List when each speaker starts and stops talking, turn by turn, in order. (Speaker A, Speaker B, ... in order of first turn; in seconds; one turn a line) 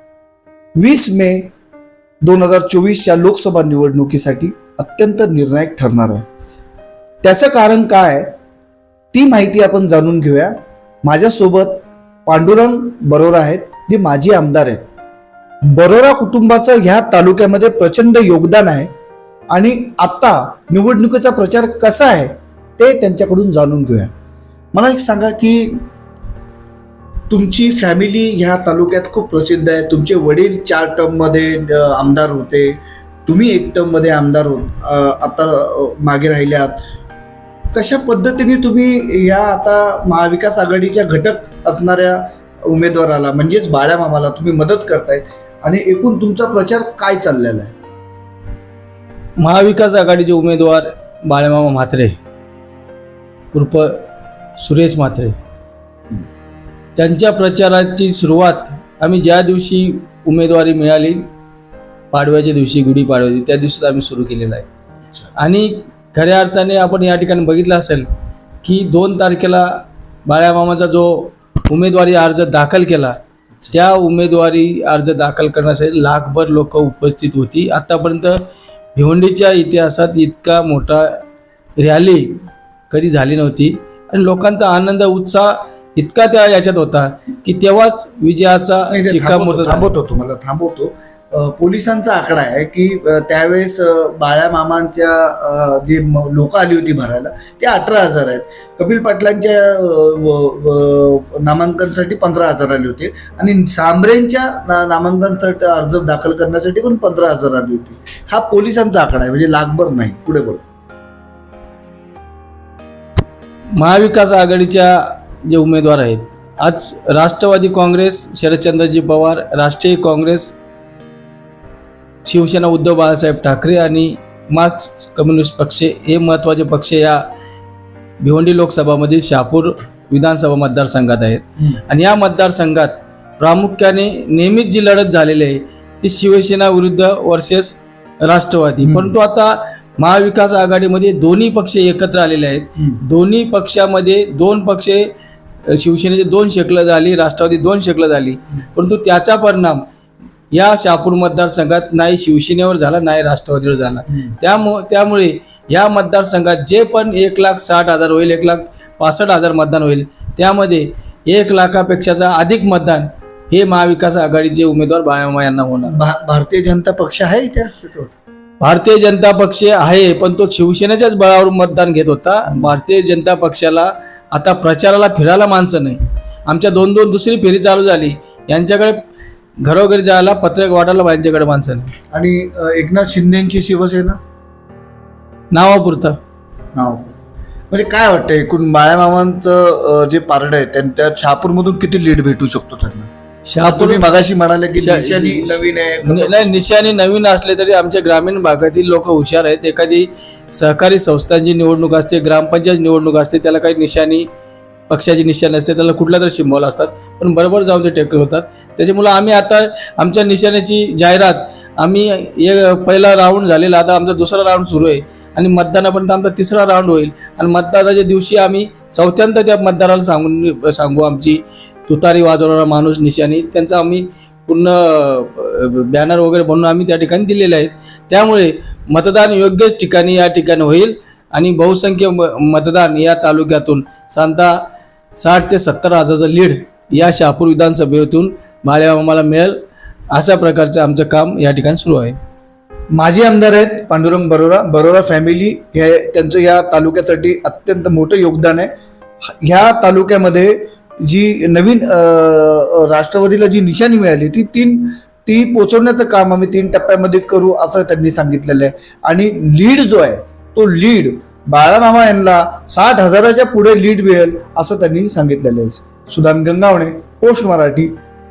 Speaker A: 0.8-1.5
Speaker A: 2.2-6.3
Speaker A: 7.2-8.3
Speaker A: 9.1-14.8
Speaker A: 15.6-18.9
Speaker A: 19.5-24.1
Speaker A: 24.7-25.9
Speaker A: 27.3-36.8
Speaker A: 37.7-47.7
Speaker B: 49.4-52.2
Speaker B: 53.5-54.1
Speaker B: 54.6-55.4
Speaker B: 57.0-61.3
Speaker B: 62.1-64.7
Speaker B: 65.4-68.1
Speaker B: 68.6-73.2
Speaker B: 73.7-81.2
Speaker B: 81.8-89.9
Speaker A: 88.9-110.6
Speaker B: 113.8-120.6
Speaker B: 122.2-127.2
Speaker B: 128.2-145.1
Speaker A: 138.8-139.1
Speaker B: 145.7-149.8
Speaker B: 150.5-165.9
Speaker A: 165.9-168.2
Speaker B: 168.6-179.0
Speaker B: 179.6-181.9
Speaker A: 182.1-184.2
Speaker B: 185.5-186.2
Speaker A: 186.7-193.1
Speaker B: 193.5-194.0
Speaker A: 193.6-196.7
Speaker B: 194.8-204.3
Speaker B: 204.9-234.6
Speaker B: 235.2-239.6
Speaker B: 240.1-242.2
Speaker A: 242.9-248.7
Speaker A: 249.4-267.9